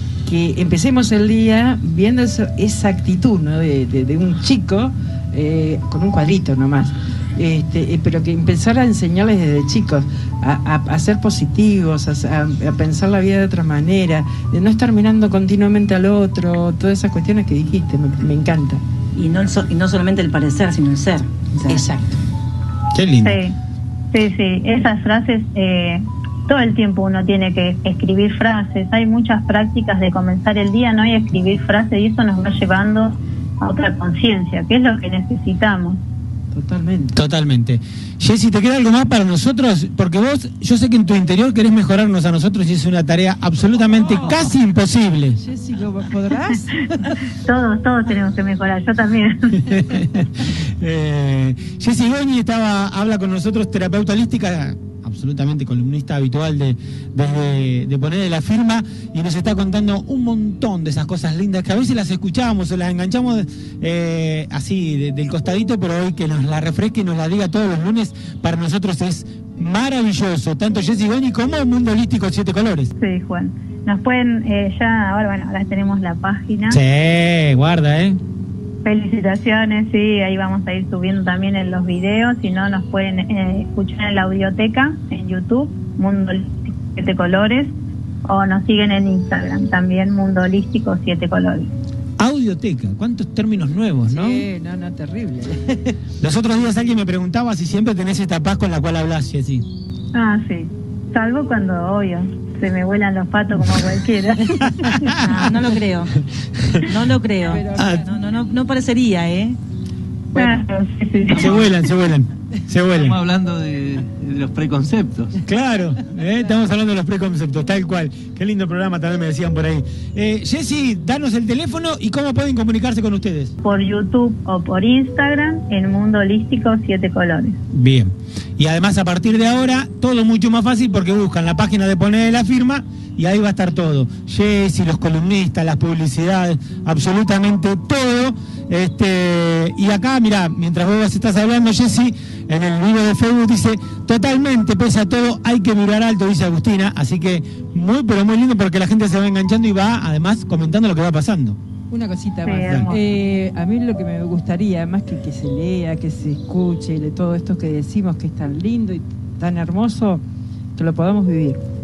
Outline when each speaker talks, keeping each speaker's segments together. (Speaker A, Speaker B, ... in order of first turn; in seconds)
Speaker A: 0.2-18.8, 21.6-22.2, 36.5-37.1, 44.1-44.5, 45.4-47.2, 94.1-96.0, 107.4-108.1, 151.9-160.2, 160.8-161.6
Speaker B: 19.1-21.8, 105.2-106.1, 106.8-109.6
Speaker C: 22.9-23.4, 37.1-45.4, 49.7-72.9, 76.7-78.2, 92.2-94.4, 96.2-99.6, 104.6-105.2, 106.5-106.8, 107.7-108.0, 111.3-113.2, 115.4-123.5, 127.7-151.6
Speaker D: 23.2-23.5, 24.1-36.0, 47.4-49.8, 73.0-76.8, 78.8-87.7, 88.2-91.7, 100.1-105.2, 110.3-111.6, 123.6-127.6, 152.4-153.0
Speaker E: 111.3-111.8, 112.9-115.4